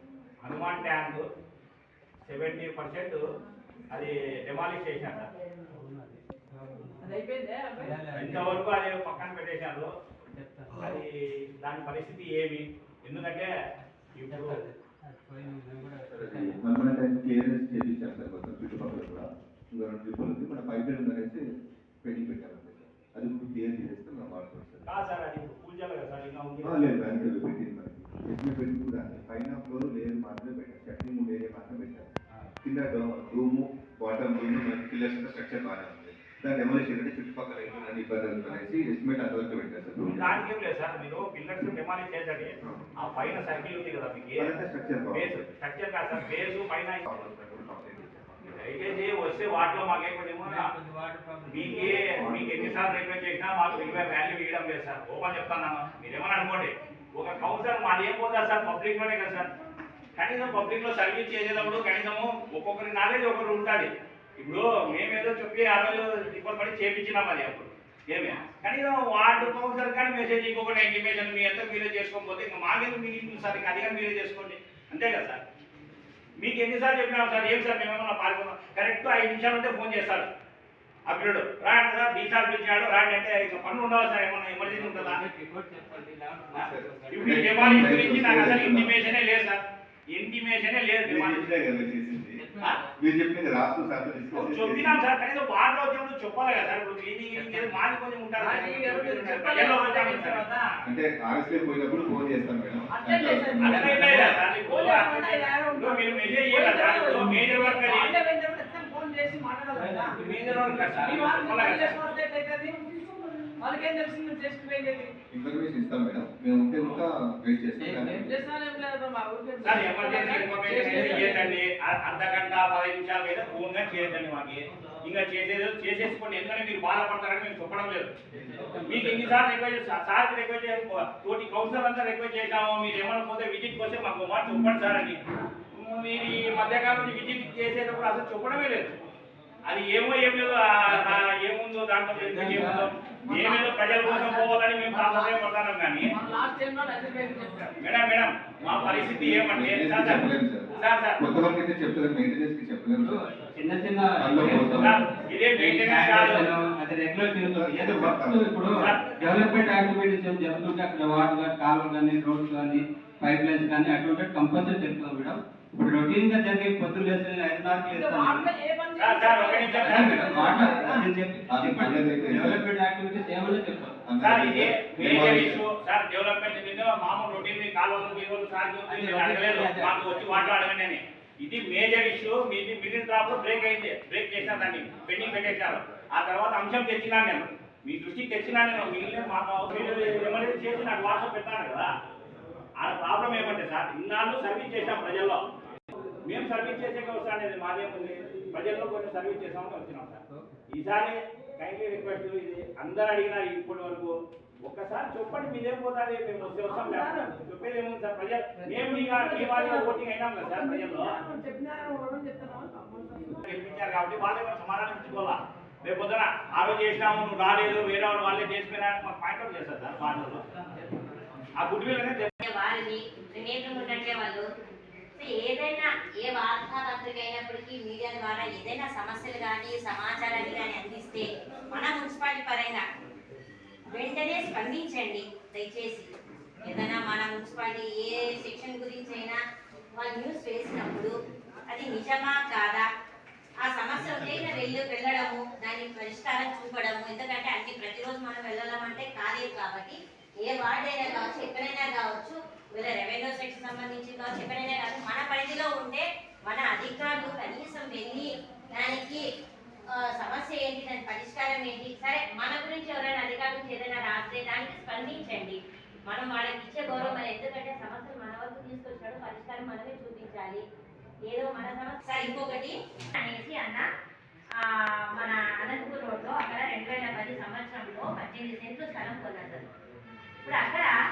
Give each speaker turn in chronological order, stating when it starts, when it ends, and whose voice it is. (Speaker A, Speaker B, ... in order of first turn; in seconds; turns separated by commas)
Speaker A: 0.4-1.3, Speaker A: 2.2-3.2, Speaker A: 3.9-5.3, Speaker B: 5.7-7.1, Speaker C: 7.0-8.0, Speaker B: 7.8-8.6, Speaker A: 8.1-9.9, Speaker B: 10.3-11.0, Speaker A: 10.7-13.5, Speaker A: 14.2-14.6, Speaker B: 14.3-16.6, Speaker D: 16.1-21.5, Speaker D: 22.0-24.9, Speaker A: 24.9-27.3, Speaker D: 26.6-32.1, Speaker D: 32.6-40.4, Speaker A: 40.1-44.5, Speaker D: 44.4-45.5, Speaker A: 45.1-47.0, Speaker D: 47.0-48.7, Speaker A: 48.6-50.7, Speaker B: 50.4-52.3, Speaker A: 51.5-59.5, Speaker D: 51.8-52.8, Speaker A: 60.2-75.4, Speaker A: 76.4-80.3, Speaker A: 81.1-85.2, Speaker B: 84.6-88.5, Speaker D: 86.5-89.0, Speaker A: 87.1-91.4, Speaker D: 91.1-92.4, Speaker B: 92.4-92.9, Speaker D: 93.0-95.0, Speaker A: 94.3-100.5, Speaker B: 97.3-97.8, Speaker C: 98.4-100.7, Speaker D: 100.8-104.3, Speaker C: 102.9-110.2, Speaker A: 103.6-108.2, Speaker B: 109.7-111.0, Speaker A: 110.2-112.2, Speaker C: 110.8-115.1, Speaker D: 115.3-118.3, Speaker B: 117.8-118.3, Speaker C: 118.2-121.6, Speaker A: 119.6-128.1, Speaker B: 120.7-121.3, Speaker B: 128.3-129.5, Speaker A: 128.9-135.2, Speaker A: 135.7-139.0, Speaker A: 139.7-146.1, Speaker B: 140.9-141.2, Speaker B: 142.1-142.9, Speaker C: 143.2-145.3, Speaker C: 146.1-147.8, Speaker A: 147.8-151.2, Speaker D: 148.7-153.2, Speaker B: 153.0-168.5, Speaker D: 154.2-154.9, Speaker A: 154.7-156.5, Speaker D: 157.4-158.5, Speaker C: 167.9-171.1, Speaker A: 169.0-170.3, Speaker B: 169.8-174.1, Speaker D: 171.5-172.6, Speaker D: 174.1-175.6, Speaker A: 174.2-191.9, Speaker B: 178.9-180.5, Speaker A: 192.8-195.4, Speaker A: 196.2-211.2, Speaker C: 206.6-207.4, Speaker C: 208.6-213.4, Speaker A: 213.4-220.4, Speaker A: 221.6-222.3, Speaker E: 222.4-224.4, Speaker E: 225.2-232.8, Speaker E: 233.9-236.1, Speaker E: 236.6-239.4, Speaker E: 240.0-241.1, Speaker E: 241.7-242.8, Speaker E: 243.6-259.2, Speaker B: 244.1-244.6, Speaker E: 259.9-270.6, Speaker E: 271.3-273.9, Speaker E: 274.6-279.6, Speaker E: 280.4-280.9